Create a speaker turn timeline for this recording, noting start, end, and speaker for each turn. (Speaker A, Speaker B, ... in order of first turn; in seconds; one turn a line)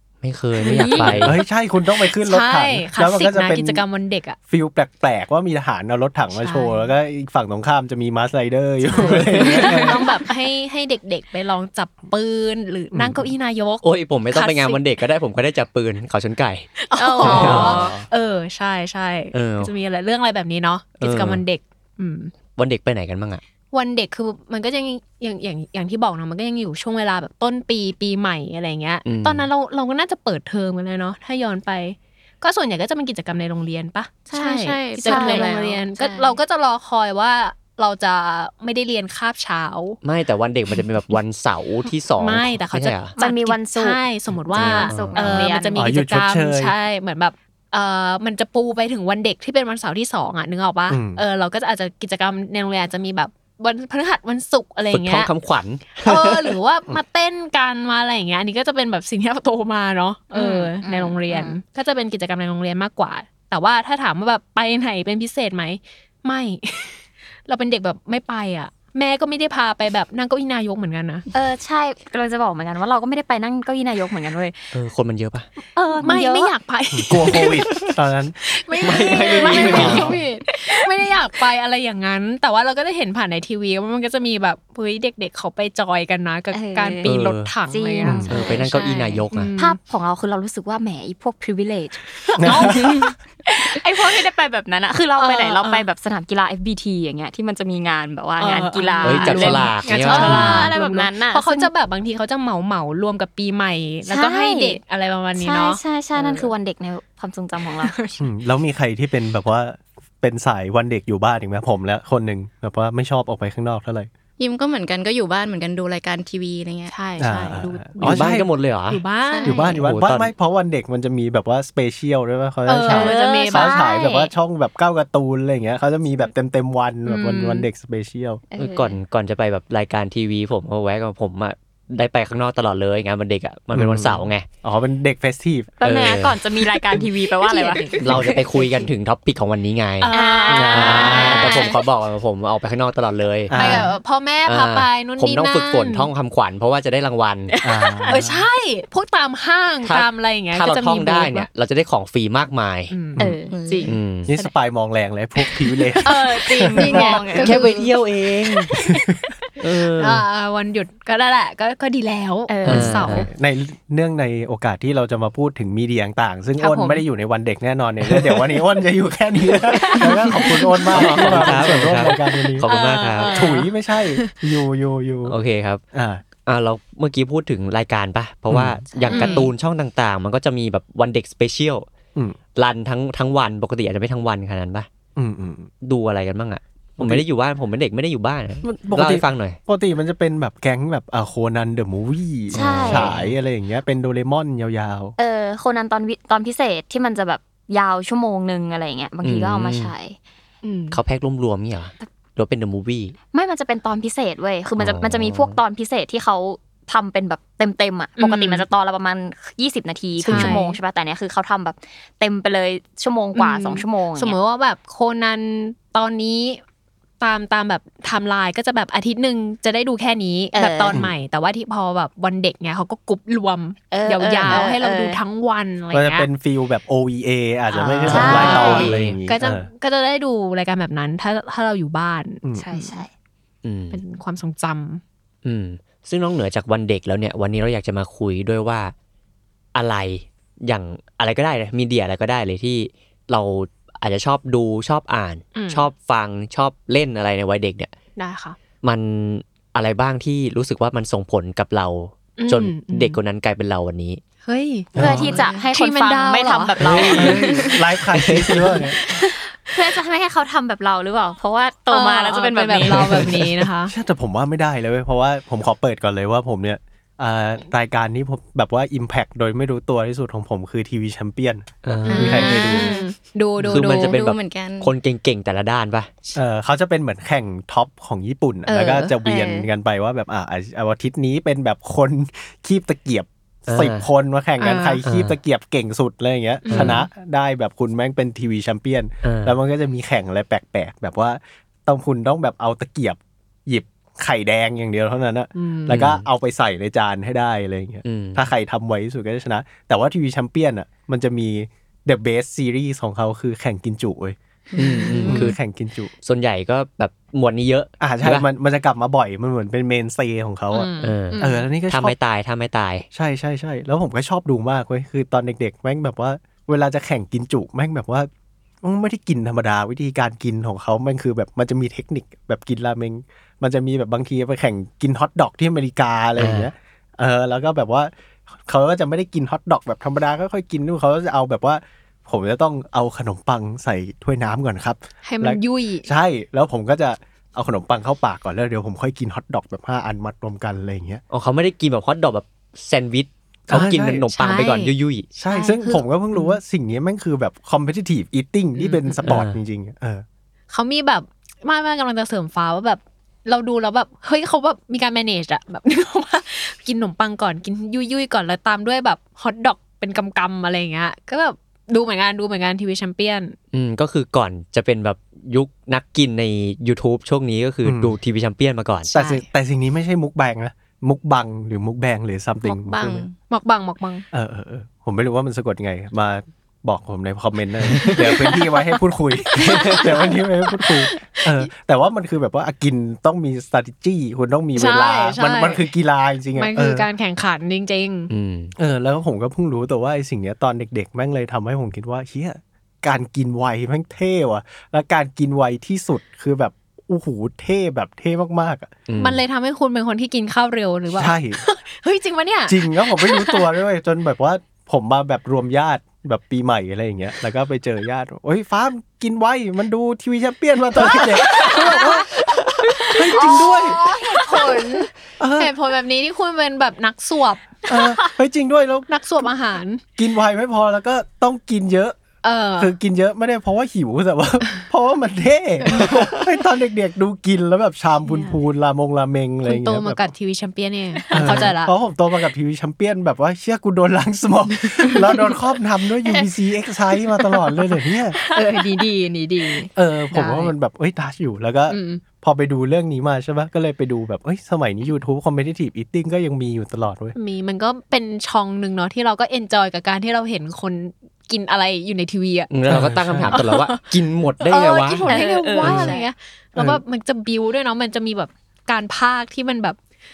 Speaker A: 0.2-1.4
Speaker B: 0.6-1.2
Speaker C: 0.6-1.4
Speaker D: 1.0-3.8
Speaker C: 2.0-4.4
Speaker D: 4.5-10.1
Speaker C: 6.3-6.9
Speaker C: 8.8-14.8
Speaker A: 8.9-10.0
Speaker D: 12.9-13.3
Speaker A: 13.8-17.8
Speaker C: 16.8-22.3
Speaker B: 17.0-17.9
Speaker E: 17.2-17.6
Speaker D: 17.2-18.0
Speaker A: 19.3-19.7
Speaker A: 21.0-21.4
Speaker A: 22.6-23.4
Speaker C: 23.7-40.0
Speaker A: 29.0-29.5
Speaker E: 34.3-36.4
Speaker B: 35.0-35.6
Speaker A: 40.0-43.1
Speaker C: 42.2-55.3
Speaker B: 43.1-44.0
Speaker A: 44.5-45.5
Speaker B: 44.5-45.9
Speaker D: 45.8-46.8
Speaker D: 50.9-51.2
Speaker A: 54.9-56.6
Speaker C: 56.0-71.3
Speaker B: 60.3-61.6
Speaker B: 71.3-74.8
Speaker A: 74.7-75.5
Speaker C: 75.8-77.6
Speaker B: 75.8-76.5
Speaker D: 76.9-78.3
Speaker C: 78.4-88.3
Speaker A: 78.8-80.2
Speaker B: 79.0-80.1
Speaker D: 79.4-80.2
Speaker B: 86.5-87.1
Speaker A: 87.0-87.5
Speaker B: 87.6-101.7
Speaker D: 88.0-88.4
Speaker A: 88.2-89.5
Speaker E: 88.4-89.2
Speaker C: 89.3-89.8
Speaker C: 92.3-93.1
Speaker D: 92.4-93.1
Speaker C: 95.2-95.9
Speaker C: 98.4-106.5
Speaker A: 99.0-100.8
Speaker B: 104.1-104.8
Speaker B: 105.4-107.9
Speaker C: 107.7-108.2
Speaker D: 108.2-114.1
Speaker E: 114.4-116.9
Speaker C: 116.9-119.6
Speaker D: 117.2-118.5
Speaker A: 118.0-119.0
Speaker E: 119.3-119.8
Speaker D: 119.4-128.4
Speaker A: 119.8-120.3
Speaker C: 122.7-123.8
Speaker B: 122.8-124.3
Speaker C: 127.1-127.7
Speaker B: 128.5-129.0
Speaker A: 128.6-134.4
Speaker D: 133.7-135.7
Speaker B: 135.8-138.8
Speaker A: 135.8-136.4
Speaker C: 137.4-138.3
Speaker A: 138.0-143.9
Speaker C: 140.0-141.8
Speaker B: 140.1-141.8
Speaker D: 140.5-141.3
Speaker E: 141.1-141.7
Speaker D: 143.5-143.9
Speaker C: 143.5-146.1
Speaker A: 144.4-147.5
Speaker B: 147.5-148.2
Speaker D: 147.6-148.4
Speaker C: 148.1-151.5
Speaker A: 149.8-152.9
Speaker C: 152.9-154.5
Speaker B: 153.2-153.6
Speaker E: 153.5-153.9
Speaker A: 153.9-154.3
Speaker D: 154.2-157.2
Speaker C: 156.0-158.0
Speaker E: 156.6-157.7
Speaker B: 157.0-157.4
Speaker A: 157.3-158.7
Speaker C: 158.6-163.3
Speaker D: 158.7-159.0
Speaker A: 159.6-160.2
Speaker B: 162.5-163.1
Speaker A: 162.7-163.3
Speaker D: 162.7-172.7
Speaker C: 166.6-167.0
Speaker A: 168.0-168.6
Speaker C: 169.7-174.4
Speaker A: 170.9-173.6
Speaker D: 173.3-175.4
Speaker A: 175.2-175.8
Speaker D: 175.9-176.2
Speaker A: 176.4-181.9
Speaker D: 178.5-178.8
Speaker B: 178.9-179.5
Speaker C: 179.1-179.5
Speaker A: 182.6-184.9
Speaker D: 185.2-185.7
Speaker A: 185.8-189.6
Speaker D: 187.0-187.2
Speaker D: 188.6-195.1
Speaker A: 192.5-193.3
Speaker B: 192.5-193.1
Speaker B: 195.2-200.2
Speaker A: 199.2-199.9
Speaker C: 200.6-201.0
Speaker A: 200.9-203.2
Speaker B: 203.3-214.4
Speaker A: 204.8-205.6
Speaker C: 208.2-208.6
Speaker C: 210.2-210.8
Speaker C: 213.3-216.6
Speaker C: 217.2-226.3
Speaker B: 220.5-221.0
Speaker B: 223.9-225.2
Speaker D: 225.9-229.7
Speaker B: 227.7-228.9
Speaker A: 228.1-229.2
Speaker C: 228.1-233.0
Speaker B: 232.6-233.1
Speaker A: 233.6-234.0
Speaker C: 233.9-235.0
Speaker A: 235.4-238.9
Speaker A: 239.8-247.9
Speaker C: 245.6-245.9
Speaker C: 248.2-248.6
Speaker A: 248.8-254.2
Speaker C: 252.4-253.2
Speaker C: 254.4-257.7
Speaker D: 254.9-255.4
Speaker B: 255.0-257.7
Speaker D: 256.8-259.0
Speaker A: 256.8-257.3
Speaker A: 258.1-258.8
Speaker C: 258.8-259.3
Speaker B: 259.0-263.3
Speaker C: 261.9-263.9
Speaker A: 262.8-263.6
Speaker D: 263.9-273.0
Speaker A: 271.8-272.6
Speaker C: 272.1-274.2
Speaker E: 272.2-273.1
Speaker A: 273.7-276.1
Speaker E: 273.8-274.9
Speaker D: 276.3-304.4
Speaker C: 278.7-279.1
Speaker B: 279.2-279.7
Speaker A: 283.7-284.1
Speaker C: 284.6-285.0
Speaker A: 285.0-285.3
Speaker C: 286.6-287.1
Speaker A: 286.7-287.0
Speaker A: 289.2-289.6
Speaker C: 295.6-296.0
Speaker A: 295.9-296.2
Speaker A: 298.0-298.5
Speaker E: 304.7-305.4
Speaker A: 304.8-305.6
Speaker D: 305.3-306.1
Speaker A: 306.2-308.4
Speaker D: 308.0-312.1
Speaker C: 310.7-311.7
Speaker A: 311.0-313.1
Speaker D: 313.1-318.3
Speaker D: 318.8-341.2
Speaker A: 326.4-326.7
Speaker C: 335.2-336.1
Speaker A: 341.3-345.3
Speaker D: 343.7-344.3
Speaker C: 343.7-346.6
Speaker D: 345.4-350.2
Speaker C: 348.8-349.2
Speaker A: 349.2-349.6
Speaker C: 350.7-363.6
Speaker A: 363.7-369.1
Speaker D: 367.8-368.2
Speaker D: 369.1-373.3
Speaker C: 369.1-369.5
Speaker E: 372.7-373.3
Speaker C: 373.4-374.2
Speaker D: 374.3-387.1
Speaker A: 377.9-378.2
Speaker C: 378.0-379.0
Speaker C: 379.5-381.7
Speaker A: 379.6-380.1
Speaker C: 384.7-385.9
Speaker C: 386.6-388.3
Speaker A: 388.3-388.7
Speaker D: 388.8-398.9
Speaker A: 399.1-399.4
Speaker C: 399.2-403.6
Speaker D: 401.1-401.6
Speaker D: 402.7-412.4
Speaker C: 411.0-412.1
Speaker B: 411.5-412.2
Speaker D: 413.0-414.0
Speaker B: 413.1-415.1
Speaker C: 413.2-418.1
Speaker D: 415.4-415.7
Speaker D: 417.9-419.1
Speaker C: 419.1-420.0
Speaker D: 420.2-422.2
Speaker C: 422.4-422.9
Speaker D: 422.8-430.3
Speaker C: 428.2-428.6
Speaker C: 429.6-431.9
Speaker B: 431.2-431.6
Speaker D: 431.3-438.4
Speaker C: 435.1-435.4
Speaker B: 438.3-439.0
Speaker C: 438.5-440.7
Speaker D: 439.9-447.4
Speaker C: 441.9-442.2
Speaker C: 447.3-452.7
Speaker A: 452.7-455.3
Speaker D: 452.9-453.6
Speaker C: 453.5-454.1
Speaker C: 454.6-460.0
Speaker B: 455.2-456.3
Speaker D: 455.8-456.1
Speaker D: 456.7-457.0